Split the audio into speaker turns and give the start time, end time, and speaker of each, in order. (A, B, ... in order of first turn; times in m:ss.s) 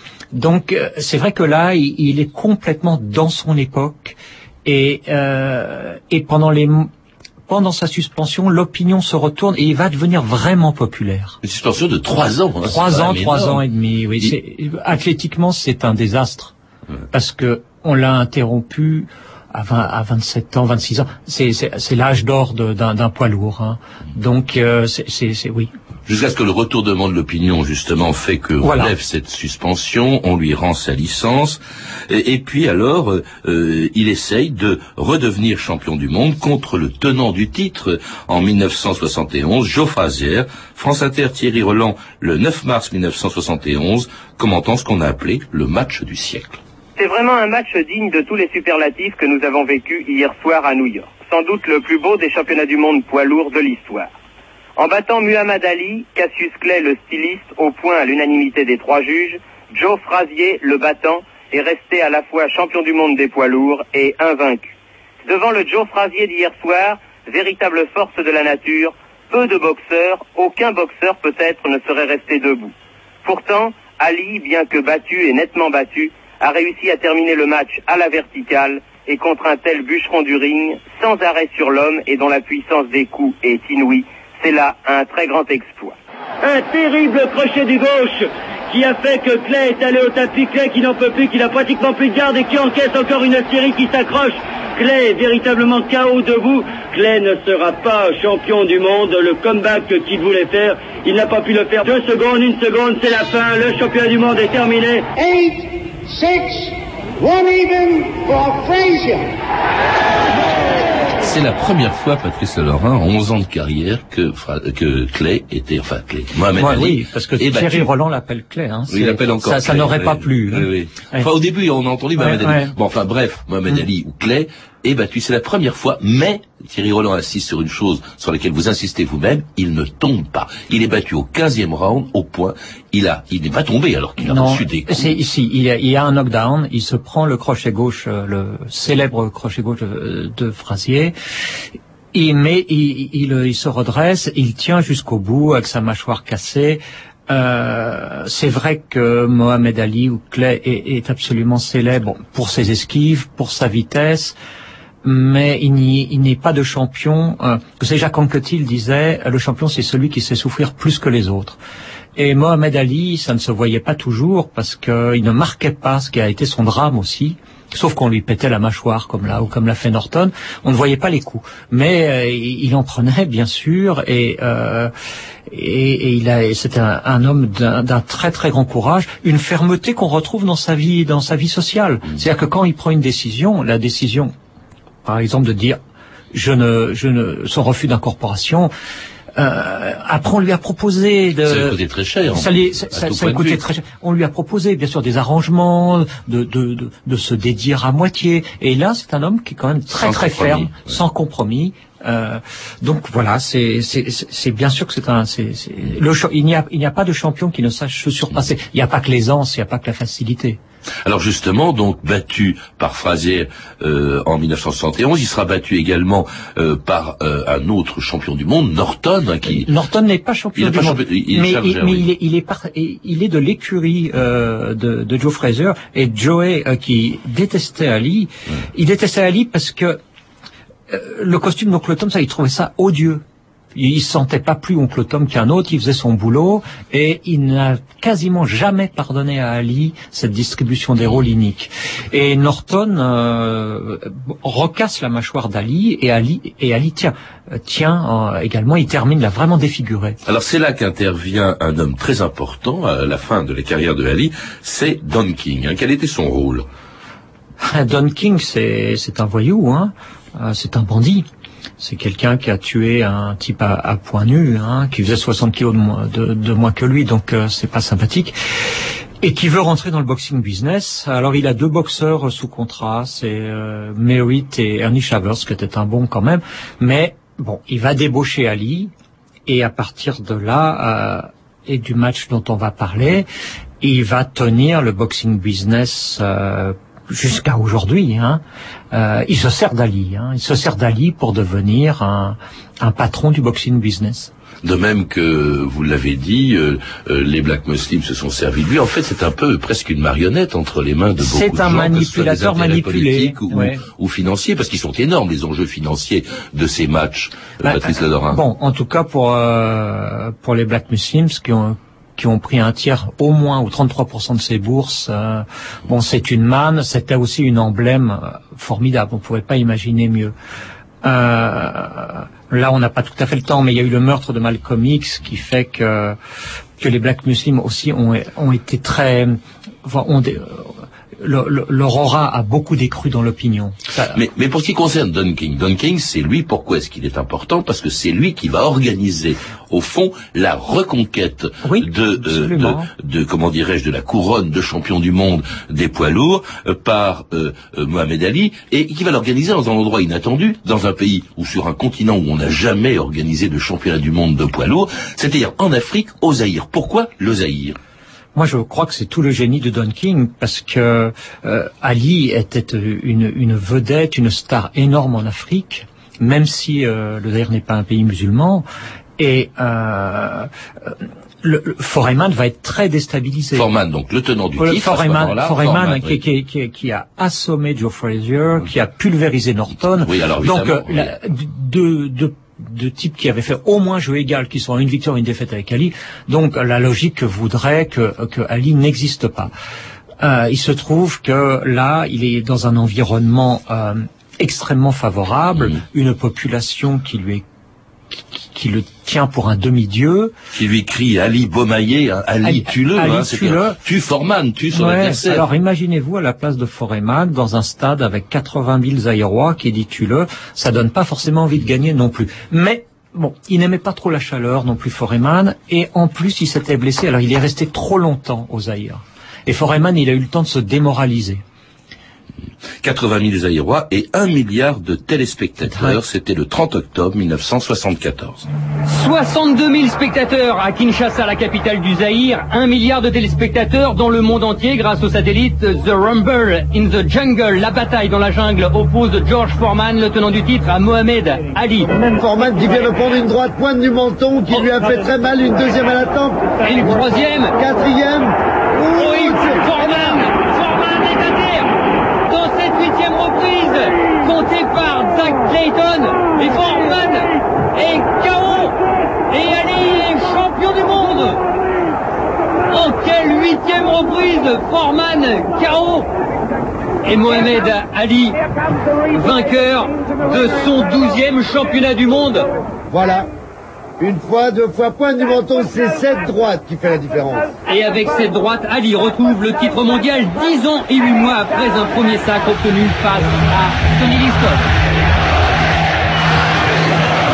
0:00.3-0:06.9 A
0:07.5-0:11.4 A
0:11.4-0:13.6 B
0:12.6-0:16.5 A
0:17.1-0:25.7 A
0:26.1-0:46.6 B
0:28.6-0:28.9 A
0:47.0-0:54.1 C
0:54.8-1:04.7 C
1:05.3-1:12.7 C
1:13.2-1:26.0 C
1:26.4-1:45.1 D
1:45.2-1:49.3 E
1:51.2-1:57.9 B
1:56.6-2:01.3 A
1:58.9-2:15.1 B
2:02.2-2:02.7 A
2:14.2-2:21.2 A
2:22.1-2:34.4 A
2:35.0-2:41.6 A
2:42.2-2:54.9 A
2:55.5-3:04.3 A
3:05.0-3:05.8 A
3:06.3-3:08.7 A
3:09.4-3:30.6 A
3:11.4-3:13.6 B
3:20.0-3:21.0 B
3:31.0-3:39.7 B
3:39.5-3:50.0 A
3:40.6-3:42.1 B
3:50.9-3:53.2 A
3:53.8-4:10.2 A
4:10.2-4:16.7 B
4:17.6-4:21.3 A
4:21.8-4:28.4 A
4:29.2-4:38.9 A
4:39.5-4:43.3 A
4:43.8-4:48.4 A
4:48.9-4:54.3 A
4:54.6-5:08.4 B
5:01.2-5:03.8 A
5:07.6-5:20.3 A
5:21.0-5:26.2 A
5:26.8-5:34.2 A
5:34.1-5:57.8 B
5:41.6-5:42.9 A
5:58.4-6:08.7 A
6:09.2-6:13.7 A
6:13.5-6:16.2 B
6:14.6-6:29.5 A
6:19.8-6:21.1 B
6:30.2-6:37.4 A
6:35.6-6:35.8 B
6:38.1-6:40.3 A
6:40.5-6:45.5 B
6:42.4-6:43.8 A
6:44.7-7:01.4 A
7:02.8-7:08.4 B
7:05.7-7:06.0 A
7:08.9-7:21.9 F
7:22.0-7:30.1 G
7:26.6-7:27.6 F
7:28.9-7:31.8 F
7:32.3-7:41.4 F
7:42.7-7:46.1 F
7:47.0-7:48.4 F
7:49.1-7:52.5 F
7:52.9-7:53.3 G
7:54.0-7:57.5 G
7:57.7-8:04.7 F